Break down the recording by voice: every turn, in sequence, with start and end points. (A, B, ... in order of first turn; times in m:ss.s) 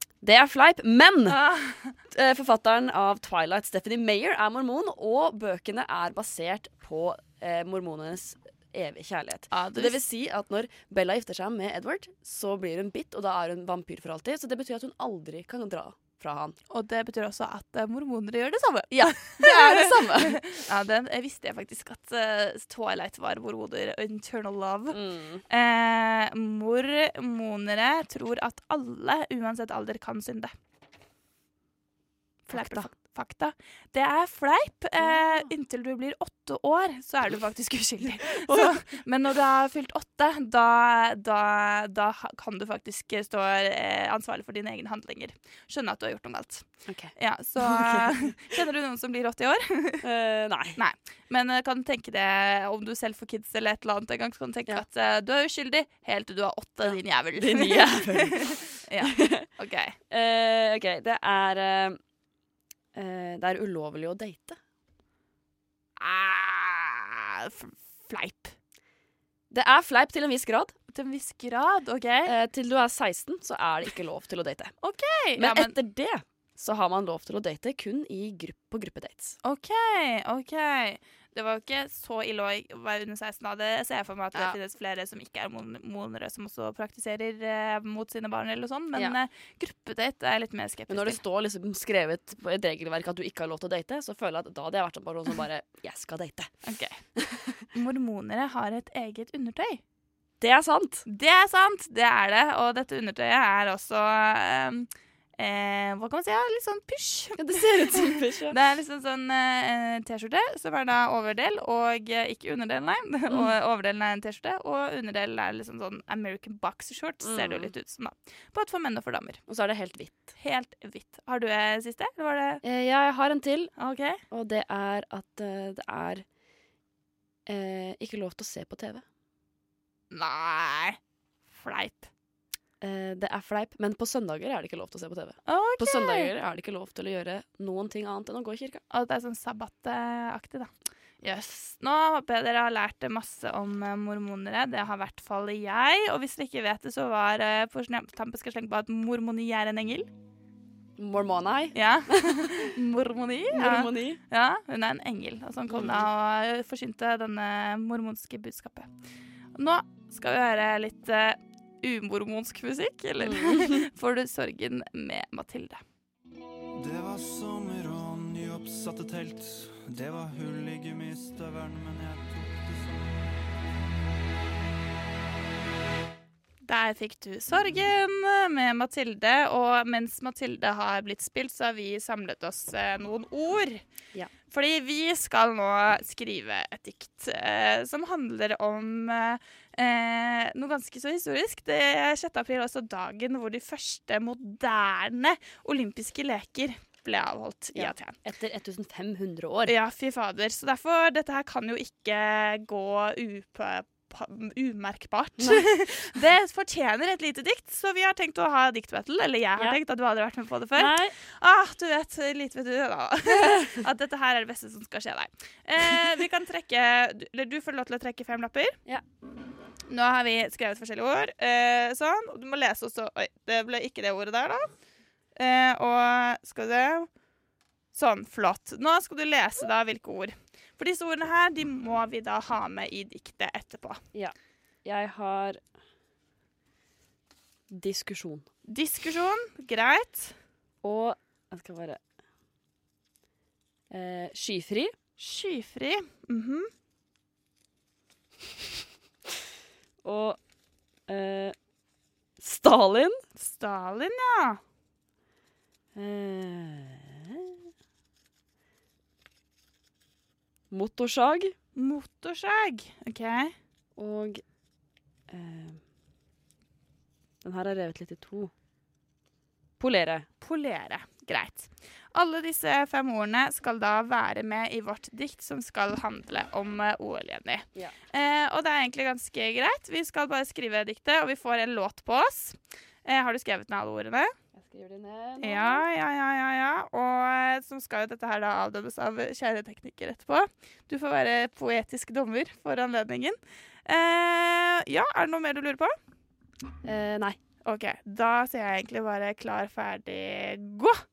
0:00.2-0:01.4 A
0:01.3-0:02.0 B
0:02.1-0:16.6 A
0:09.5-0:10.0 B
0:16.7-0:25.0 B
0:18.9-0:20.4 A
0:24.9-0:25.4 A
0:25.5-0:30.5 B
0:32.5-0:50.0 B
0:32.5-0:32.9 A
0:35.0-0:35.5 A
0:38.3-0:38.7 A
0:46.8-0:48.3 A
0:50.0-0:50.8 A
0:50.8-1:00.0 B
0:56.8-0:59.5 A
1:00.1-1:02.0 A
1:02.9-1:04.6 A
1:06.0-1:08.5 B
1:09.5-1:10.7 A
1:10.9-1:12.3 B
1:12.2-1:14.7 A
1:14.8-1:15.8 B
1:15.4-1:19.4 A
1:19.4-1:31.2 B
1:30.9-1:36.5 A
1:36.6-1:37.0 B
1:37.2-1:37.6 A
1:37.7-1:39.8 B
1:40.4-1:41.0 A
1:41.0-1:59.4 B
1:47.4-1:48.6 A
1:57.2-1:57.7 A
1:59.5-2:00.3 A
2:00.4-2:02.6 B
2:02.6-2:03.7 A
2:03.8-2:04.2 B
2:04.3-2:06.2 A
2:07.4-2:09.0 A
2:10.1-2:11.0 B
2:11.5-2:12.1 B
2:12.8-2:18.8 A
2:15.4-2:16.3 B
2:18.9-2:20.7 B
2:21.2-2:30.1 B
2:31.0-2:32.7 A
2:31.7-2:38.9 B
2:33.5-2:34.2 A
2:35.7-2:36.1 A
2:39.5-2:45.8 B
2:43.2-2:43.9 A
2:46.7-2:53.2 C
2:56.6-3:03.8 B
3:04.5-3:18.2 B
3:17.7-3:19.7 A
3:19.6-3:38.8 B
3:25.4-3:25.7 A
3:30.8-3:31.1 A
3:39.9-3:44.7 B
3:45.4-3:47.1 B
3:47.9-3:54.0 B
3:54.1-3:55.6 A
3:57.7-3:58.5 A
3:58.6-4:00.3 B
4:00.8-4:02.0 A
4:03.9-4:04.9 A
4:05.2-4:06.7 B
4:10.0-4:10.4 A
4:11.1-4:11.5 A
4:12.4-4:13.2 A
4:13.4-4:14.6 B
4:15.9-4:17.6 A
4:20.7-4:21.5 A
4:21.8-4:23.5 B
4:24.0-4:24.4 A
4:25.3-4:25.8 A
4:27.4-4:28.5 A
4:29.8-4:30.3 A
4:30.4-4:44.3 B
4:44.5-4:45.8 A
4:45.4-4:55.9 B
4:56.8-4:57.4 A
4:57.6-5:01.0 B